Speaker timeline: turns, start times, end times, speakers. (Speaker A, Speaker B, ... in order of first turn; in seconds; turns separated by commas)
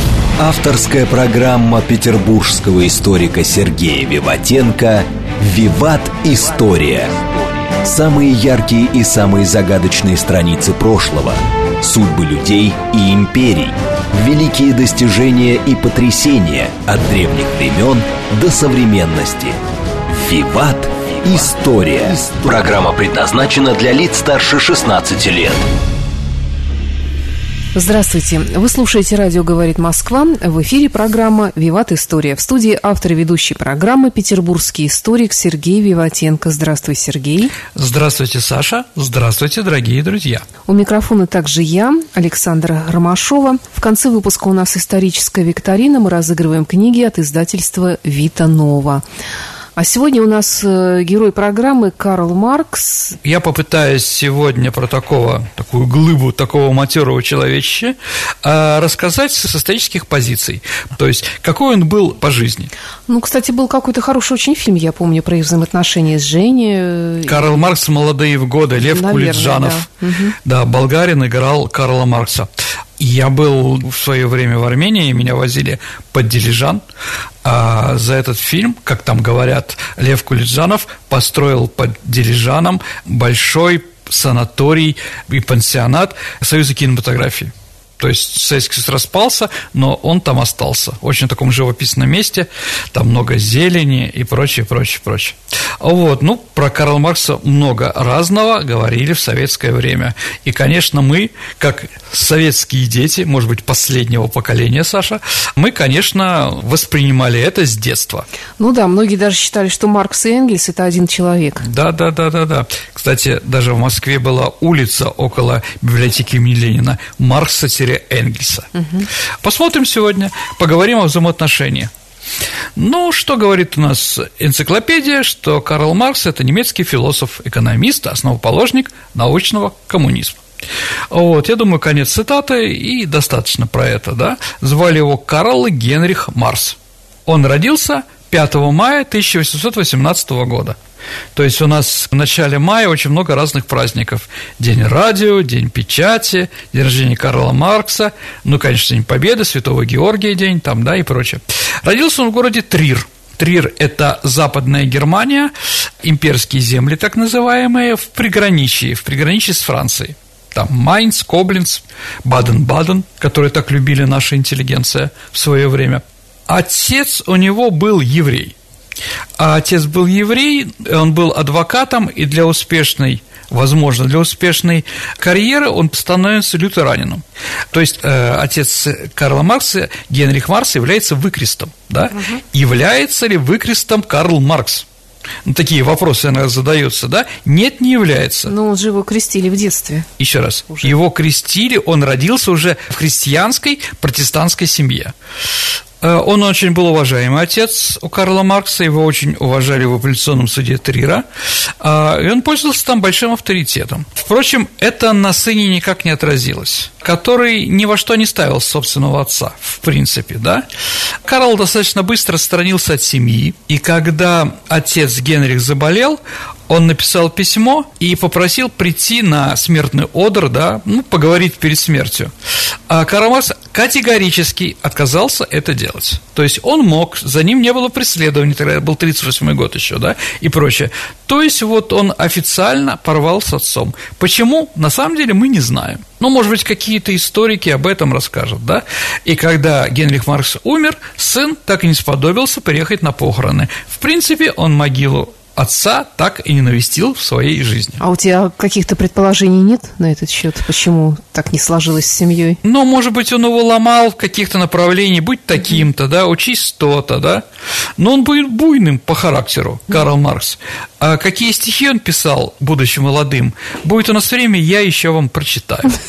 Speaker A: 0.4-7.3, Speaker A: 7.8-25.6, Speaker B: 27.7-37.5, Speaker C: 37.7-40.5, Speaker B: 40.6-49.0, Speaker B: 49.8-53.2, Speaker C: 53.2-62.7, Speaker B: 63.1-67.7, Speaker C: 67.2-69.8, Speaker B: 68.8-70.3, Speaker C: 70.4-76.8, Speaker C: 77.4-108.2, Speaker B: 108.6-111.6, Speaker C: 111.6-118.7, Speaker B: 118.8-119.1, Speaker C: 119.4-121.9, Speaker C: 122.8-130.4, Speaker C: 131.1-140.8, Speaker C: 141.3-168.6, Speaker C: 169.4-184.8, Speaker C: 185.4-188.5, Speaker B: 188.4-190.1, Speaker C: 190.2-195.1, Speaker C: 196.0-201.2, Speaker C: 201.8-210.6, Speaker C: 211.2-222.3, Speaker C: 222.9-248.0, Speaker B: 248.0-252.6, Speaker C: 252.6-257.4, Speaker C: 258.0-266.0